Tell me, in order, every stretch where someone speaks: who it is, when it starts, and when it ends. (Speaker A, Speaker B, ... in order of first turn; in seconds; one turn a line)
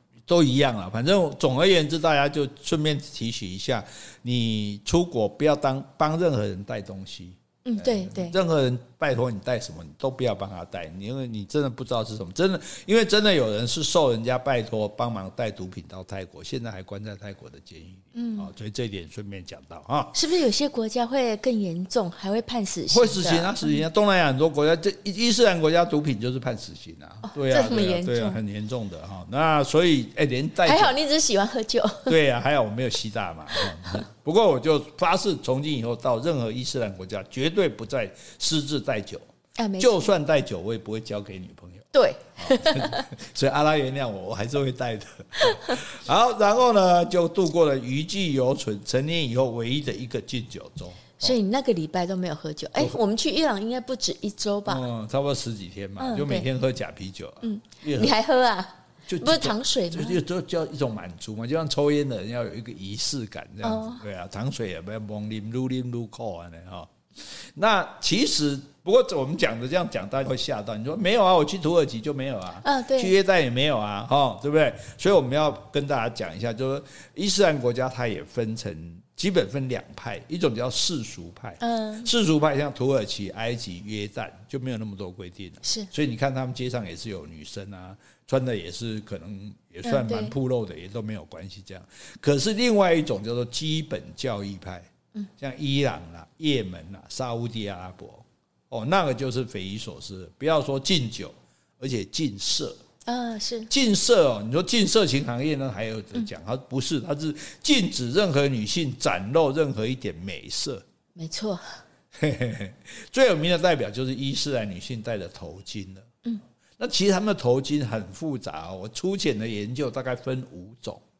Speaker A: 0.3-20.1
Speaker B: 7.6-8.3
Speaker B: 18.1-18.5
Speaker B: 20.1-23.8
Speaker A: 22.9-30.9
Speaker B: 27.2-28.4
Speaker B: 30.6-32.1
Speaker A: 32.1-39.3
Speaker B: 39.6-40.1
Speaker A: 39.8-51.4
Speaker B: 41.9-43.1
Speaker B: 51.2-54.8
Speaker A: 54.7-58.1
Speaker B: 56.0-56.5
Speaker B: 57.4-60.2
Speaker A: 59.1-102.8
Speaker B: 63.6-64.0
Speaker B: 72.6-73.1
Speaker B: 81.6-82.1
Speaker B: 85.6-85.9
Speaker B: 89.8-90.3
Speaker B: 103.0-103.7
Speaker A: 103.7-110.8
Speaker B: 111.2-111.8
Speaker A: 112.1-116.1
Speaker A: 116.8-121.0